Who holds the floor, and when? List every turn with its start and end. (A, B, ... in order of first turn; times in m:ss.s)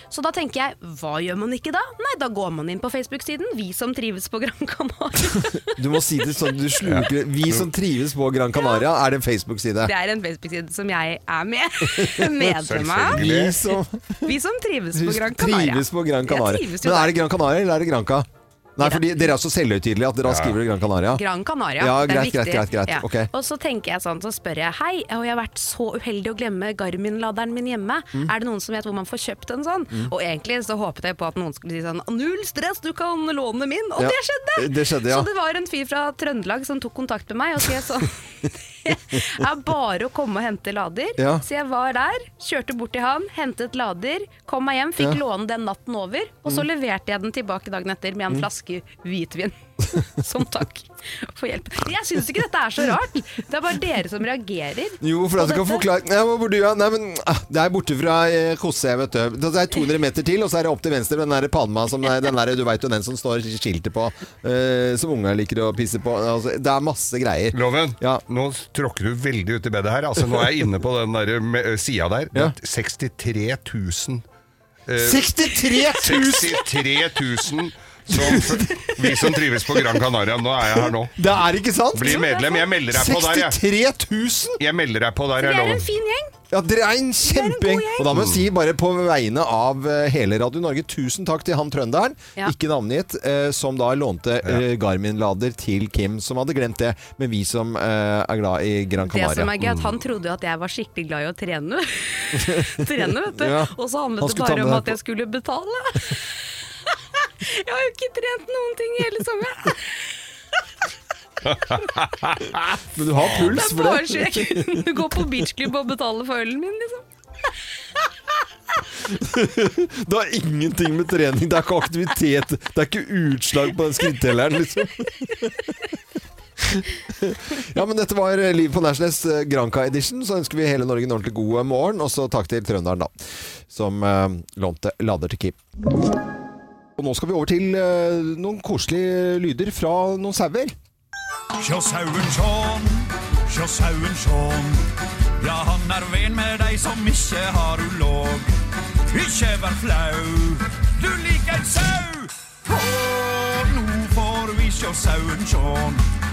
0:00.1-0:05.8 A
0:05.8-0:09.9 B
0:06.8-0:07.6 C
0:08.5-0:08.8 A
0:09.8-0:13.2 A
0:11.8-0:14.3 B
0:12.6-0:13.6 C
0:14.2-0:17.2 A
0:14.9-0:21.2 B
0:18.8-0:19.0 A
0:20.3-0:20.6 C
0:21.1-0:55.8 A
0:21.8-0:23.3 B
0:34.0-0:35.3 B
0:41.2-0:41.4 B
0:55.0-1:08.2 B
1:07.5-1:14.2 C
1:14.9-1:15.3 C
1:15.0-1:16.7 B
1:15.9-1:21.2 C
1:18.1-1:20.0 B
1:20.6-1:22.3 B
1:21.9-1:23.6 C
1:22.0-1:22.7 A
1:22.8-1:24.6 B
1:24.6-1:25.9 C
1:25.4-1:26.3 A
1:26.5-1:39.5 B
1:27.2-1:28.1 A
1:28.1-1:28.4 C
1:39.0-1:46.4 A
1:39.6-1:39.9 C
1:42.4-1:45.0 B
1:47.2-1:50.0 A
1:51.4-1:52.6 C
1:52.9-1:54.9 B
1:53.2-1:57.0 A
1:59.0-2:05.5 B
2:06.6-2:13.1 B
2:13.7-2:15.6 B
2:17.0-2:20.7 B
2:21.6-2:24.8 D
2:25.4-2:28.5 D
2:29.0-2:36.0 D